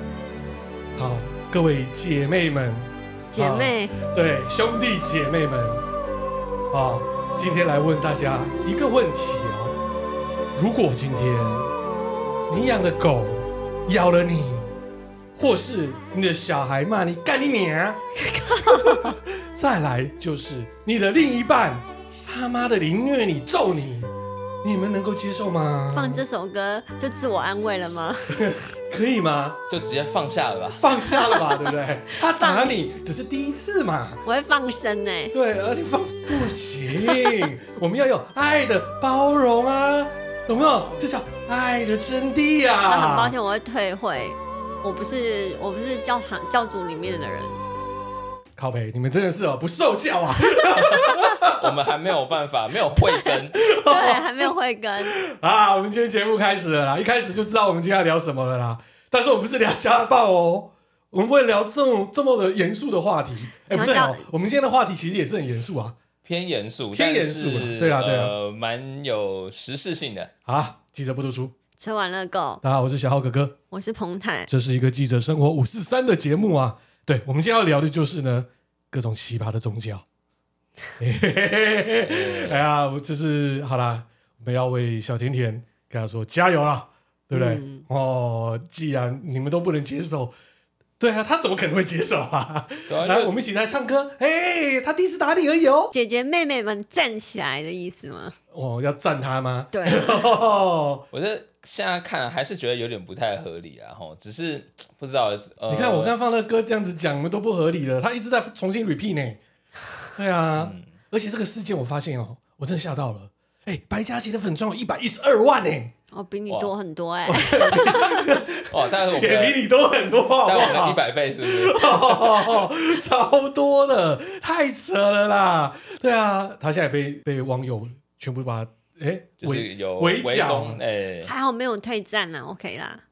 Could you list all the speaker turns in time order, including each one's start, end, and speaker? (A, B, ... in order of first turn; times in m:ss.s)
0:01.0-0:05.8 A
0:03.3-0:04.0 B
0:06.7-0:09.8 A
0:10.6-0:11.7 A
0:12.5-0:14.7 A
0:15.4-0:18.0 A
0:18.3-0:19.0 B
0:18.7-0:26.2 A
0:25.9-0:28.6 B
0:28.4-0:29.6 A
0:29.7-0:30.9 C
0:30.8-0:34.2 A
0:31.1-0:32.8 B
0:34.2-0:35.4 B
0:35.3-0:43.4 A
0:42.9-0:47.6 B
0:48.6-0:51.7 A
0:51.4-0:53.6 C
0:53.6-0:54.3 A
0:53.7-0:55.2 B
0:55.1-1:06.0 A
1:03.7-1:04.2 B
1:06.2-1:10.3 C
1:06.9-1:08.4 A
1:10.5-1:11.5 A
1:11.8-1:12.6 B
1:12.6-1:13.6 A
1:13.7-1:14.5 B
1:14.5-1:20.0 A
1:21.0-1:30.3 A
1:22.0-1:22.6 C
1:27.3-1:27.8 B
1:31.0-1:35.9 A
1:32.9-1:33.4 C
1:35.9-1:38.4 B
1:38.5-1:41.1 A
1:39.7-1:40.3 B
1:41.1-1:46.2 C
1:45.7-1:49.4 A
1:50.2-1:55.9 A
1:50.6-1:50.9 C
1:56.1-1:58.2 B
1:56.5-1:56.7 C
1:57.3-2:10.8 A
1:57.8-1:59.6 C
2:00.4-2:02.7 C
2:09.4-2:11.3 C
2:11.2-2:13.0 B